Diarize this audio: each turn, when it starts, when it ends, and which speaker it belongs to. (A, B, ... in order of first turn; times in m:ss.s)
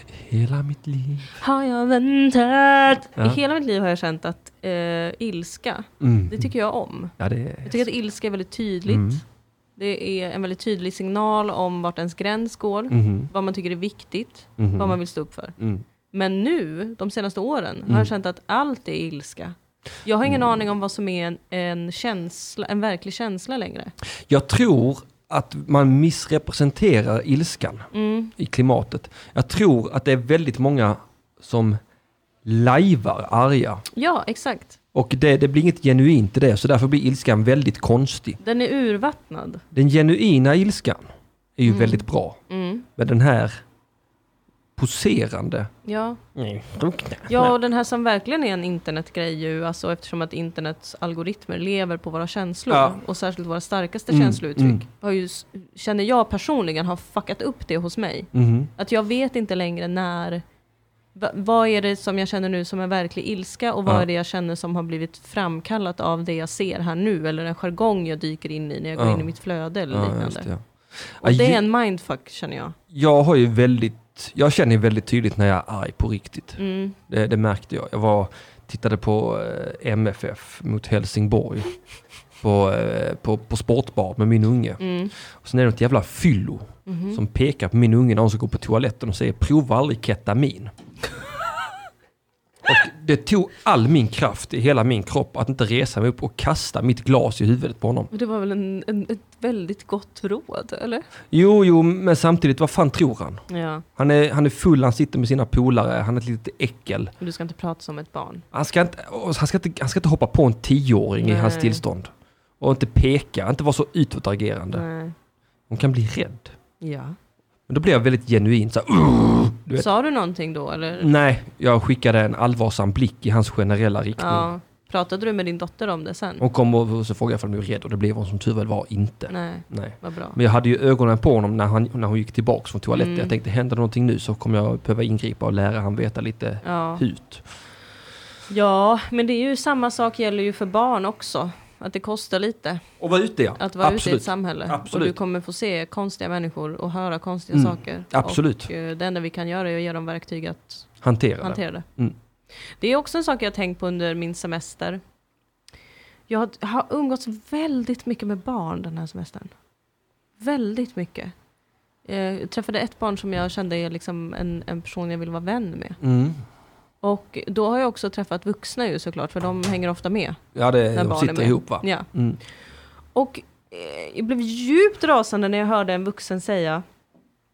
0:00.1-0:01.4 A
0:01.3-0:07.1 B
0:06.0-0:06.5 A
0:07.2-0:07.8 A
0:07.6-0:09.2 B
0:08.9-0:09.2 A
0:09.8-0:15.6 B
0:12.9-0:13.3 A
0:14.6-0:15.0 A
0:15.6-0:15.8 A
0:16.1-0:23.9 B
0:24.3-0:31.8 A
0:27.9-0:28.3 B
0:32.4-0:33.8 A
0:33.9-0:34.8 B
0:34.9-0:38.4 A
0:38.4-0:39.6 B
0:39.7-0:41.0 A
0:41.6-0:42.4 A
0:41.7-0:42.9 B
0:43.0-0:43.6 A
0:44.8-0:45.7 A
0:45.8-0:46.2 B
0:46.4-0:47.6 A
0:47.3-1:00.4 B
0:52.7-0:53.0 A
0:54.1-0:54.8 A
0:58.3-0:58.7 A
1:01.2-1:10.5 B
1:09.0-1:09.3 A
1:09.9-1:10.6 A
1:11.2-1:11.6 A
1:11.2-1:12.8 B
1:12.9-1:21.7 A
1:16.6-1:17.0 B
1:22.4-1:24.8 A
1:24.8-1:25.1 B
1:25.4-1:30.7 A
1:26.9-1:27.2 B
1:32.6-1:38.1 A
1:38.1-1:41.0 B
1:41.3-1:43.4 A
1:43.5-1:43.8 B
1:44.0-1:47.1 A
1:47.2-1:48.4 B
1:48.5-1:54.8 A
1:51.2-1:51.8 B
1:54.7-1:55.2 B
1:55.7-1:56.6 A
1:56.8-1:57.2 B
1:57.7-1:59.9 A
1:59.8-2:01.1 B
2:01.0-2:04.5 A
2:04.2-2:06.4 B
2:06.4-2:17.4 A
2:09.3-2:10.4 B
2:12.9-2:13.3 B
2:16.6-2:17.0 B
2:18.5-2:22.8 B
2:23.0-2:25.2 A
2:23.6-2:31.9 B
2:27.5-2:28.7 A
2:31.0-2:32.2 A
2:32.8-2:35.0 B
2:36.3-2:39.5 B
2:40.4-2:41.3 B
2:42.0-2:46.0 B
2:46.0-2:46.4 A
2:47.0-2:50.4 B
2:50.6-2:52.4 A
2:50.9-2:52.1 B
2:53.1-2:56.8 B